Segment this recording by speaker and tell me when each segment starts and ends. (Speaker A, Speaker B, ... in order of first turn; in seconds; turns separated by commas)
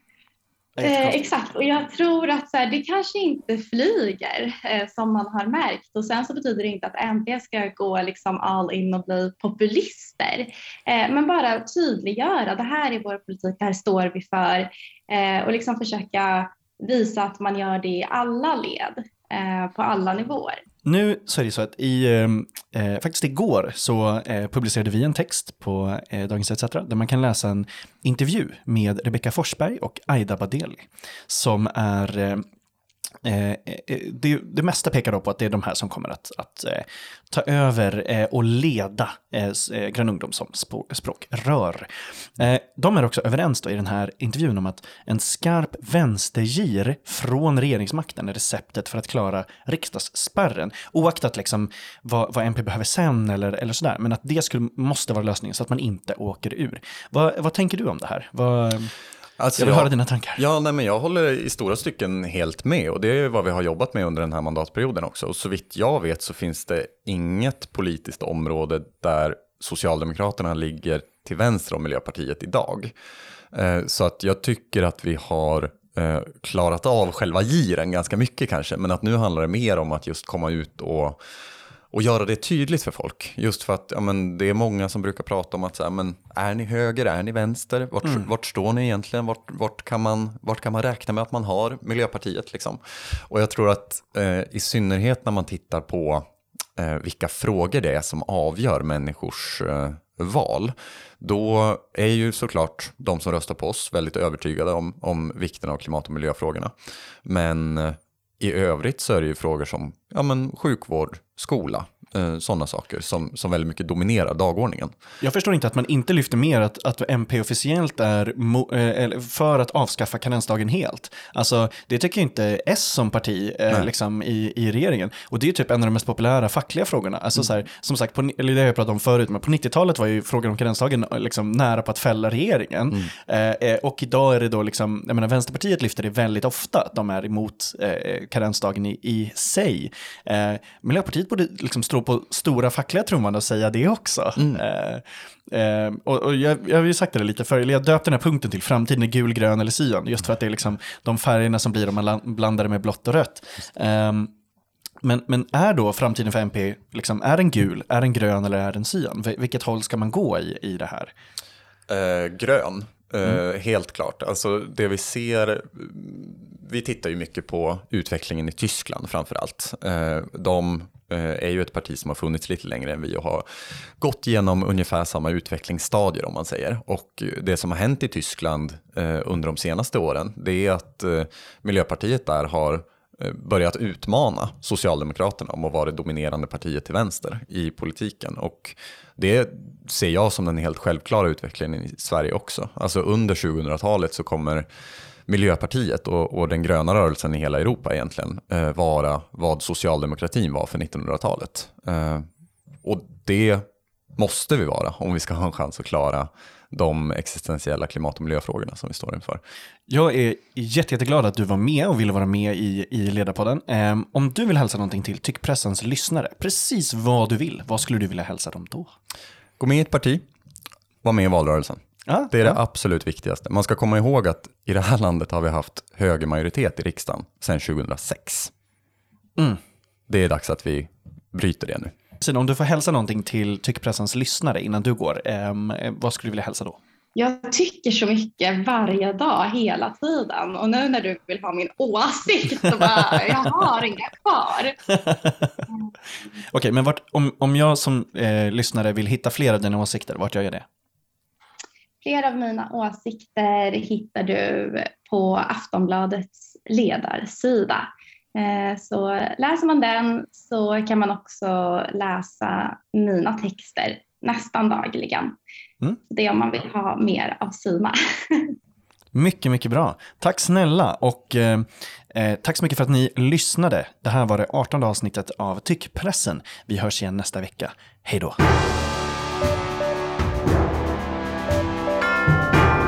Speaker A: 0.8-1.2, Speaker B: 0.8-20.6, Speaker A: 20.8-32.4, Speaker A: 33.2-58.9, Speaker C: 59.4-72.9, Speaker A: 59.6-60.4, Speaker C: 73.5-81.2, Speaker C: 81.9-106.7, Speaker C: 107.2-114.9, Speaker A: 115.2-154.3, Speaker A: 155.0-161.1, Speaker C: 161.9-173.4, Speaker C: 174.0-194.7, Speaker C: 195.3-202.2, Speaker C: 202.8-209.4, Speaker A: 209.9-218.9, Speaker C: 219.6-220.2, Speaker C: 221.0-228.5, Speaker A: 222.1-222.6, Speaker C: 230.1-231.9, Speaker A: 232.2-236.8, Speaker B: 237.2-244.8, Speaker A: 244.9-245.6, Speaker A: 246.5-250.6, Speaker B: 252.0-265.4, Speaker B: 266.1-268.5, Speaker A: 269.1-278.4